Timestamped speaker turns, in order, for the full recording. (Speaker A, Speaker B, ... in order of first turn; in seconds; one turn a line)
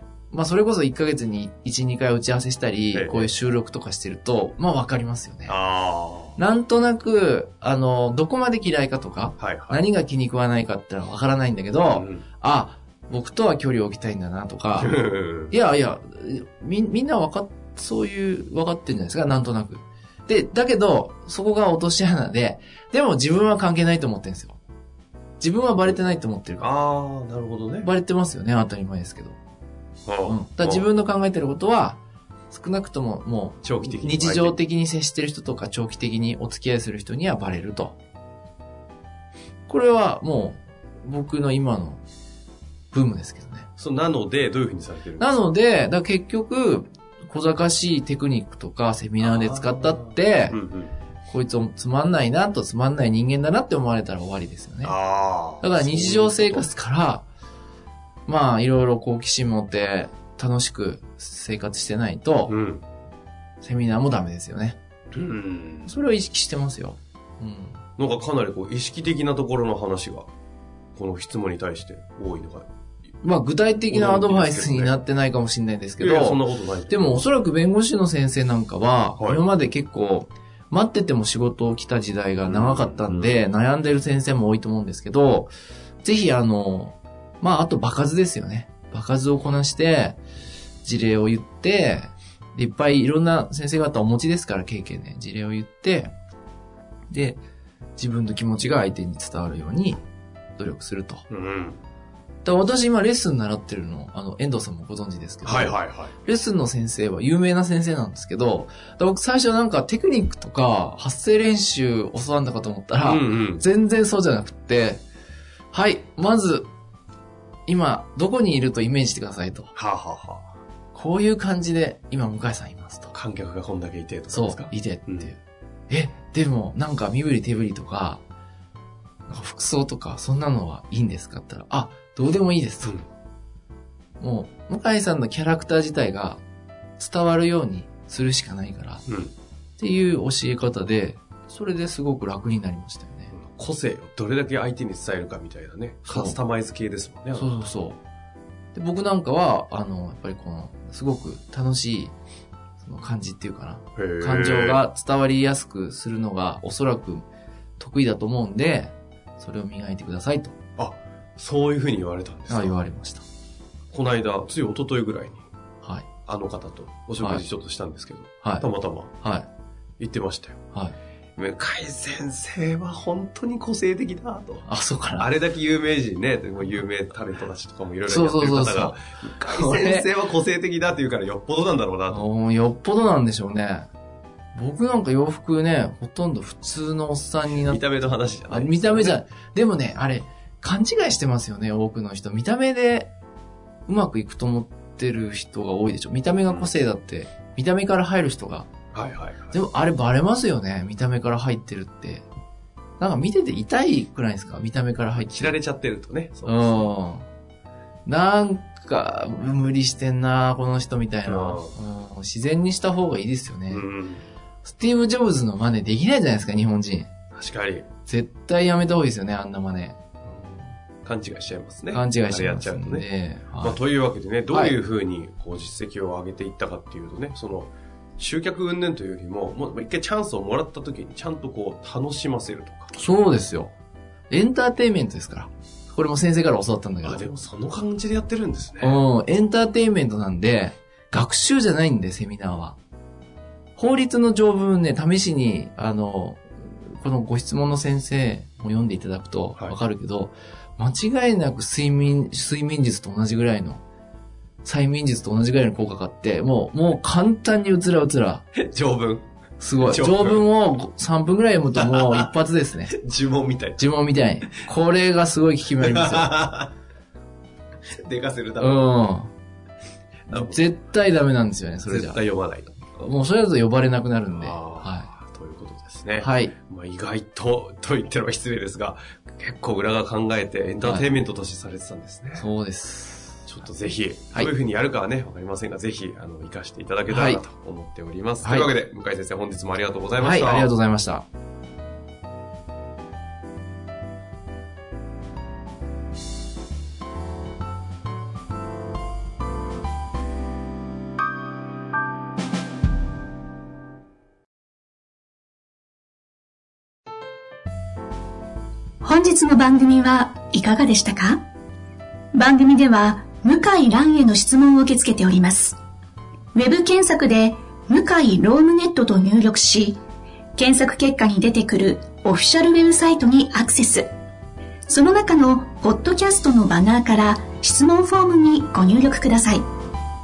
Speaker A: 0.3-5.6
Speaker B: 2.9-3.3
Speaker B: 5.5-6.4
Speaker A: 6.4-24.6
Speaker B: 9.4-9.8
Speaker B: 11.9-12.3
Speaker B: 14.8-15.6
Speaker A: 25.4-26.7
Speaker B: 26.6-27.9
Speaker A: 27.8-29.4
Speaker B: 30.1-30.9
Speaker A: 30.3-32.0
Speaker A: 32.5-38.0
Speaker B: 33.6-34.6
Speaker A: 39.7-42.0
Speaker A: 42.9-43.7
Speaker B: 43.8-45.4
Speaker A: 45.2-50.6
Speaker B: 49.2-50.9
Speaker A: 51.3-55.0
Speaker B: 54.8-56.7
Speaker A: 55.6-57.3
Speaker A: 58.3-62.6
Speaker B: 62.5-62.8
Speaker A: 63.6-64.8
Speaker B: 65.1-65.9
Speaker A: 65.8-67.8
Speaker B: 68.0-70.3
Speaker B: 71.0-72.7
Speaker A: 73.2-85.5
Speaker B: 73.9-75.0
Speaker B: 76.0-77.3
Speaker B: 79.2-79.5
Speaker B: 82.5-83.5
Speaker A: 86.0-90.2
Speaker A: 90.8-96.1
Speaker A: 97.1-97.4
Speaker A: 98.0-100.0
Speaker A: 100.6-101.3
Speaker B: 101.3-101.8
Speaker A: 102.4-115.0
Speaker B: 105.5-106.1
Speaker B: 113.0-113.6
Speaker A: 115.7-116.7
Speaker A: 117.7-119.7
Speaker B: 119.8-120.5
Speaker A: 120.9-123.1
Speaker B: 123.1-125.3
Speaker A: 124.3-125.4
Speaker A: 125.9-128.2
Speaker A: 129.3-133.0
Speaker A: 134.2-136.4
Speaker A: 137.0-139.1
Speaker B: 139.1-139.3
Speaker A: 139.8-143.3
Speaker B: 143.3-147.7
Speaker A: 146.1-146.4
Speaker A: 147.3-148.0
Speaker A: 148.7-152.2
Speaker A: 152.8-157.3
Speaker B: 154.0-154.8
Speaker A: 157.8-160.6
Speaker B: 160.8-162.8
Speaker A: 162.5-163.2
Speaker B: 163.9-165.4
Speaker A: 165.8-166.1
Speaker B: 166.3-169.1
Speaker A: 168.4-168.7
Speaker A: 169.2-169.5
Speaker B: 170.0-170.6
Speaker B: 171.4-174.7
Speaker A: 174.7-175.3
Speaker B: 175.2-182.2
Speaker A: 178.1-180.1
Speaker A: 182.1-183.9
Speaker A: 184.6-187.8
Speaker B: 187.4-189.2
Speaker A: 188.5-193.1
Speaker A: 193.9-198.7
Speaker B: 198.9-199.6
Speaker A: 199.5-202.2
Speaker A: 203.0-205.6
Speaker B: 205.2-206.9
Speaker A: 206.5-207.3
Speaker A: 208.1-213.8
Speaker B: 211.3-211.8
Speaker B: 213.7-214.3
Speaker A: 214.6-217.1
Speaker B: 217.3-217.9
Speaker A: 218.1-220.0
Speaker B: 221.0-223.1
Speaker A: 221.9-223.8
Speaker B: 223.6-232.9
Speaker A: 232.9-233.7
Speaker A: 234.3-237.2
Speaker B: 237.0-239.0
Speaker A: 238.8-242.8
Speaker A: 243.8-253.8
Speaker A: 254.6-258.5
Speaker B: 258.6-260.5
Speaker A: 259.6-263.0
Speaker B: 261.8-262.3
Speaker B: 262.9-264.6
Speaker A: 263.8-266.4
Speaker B: 265.8-266.7
Speaker B: 267.9-268.9
Speaker A: 268.6-269.3
Speaker B: 270.3-270.6
Speaker A: 270.3-272.2
Speaker B: 271.9-272.8
Speaker A: 273.0-275.1
Speaker B: 274.3-282.5
Speaker A: 276.2-276.6
Speaker A: 282.4-283.5
Speaker B: 283.5-290.7
Speaker A: 287.1-287.4
Speaker A: 288.4-288.7
Speaker A: 290.2-291.3
Speaker C: 309.0-311.4
Speaker C: 312.3-315.8
Speaker C: 316.5-320.0
Speaker C: 320.6-324.1
Speaker C: 324.9-329.7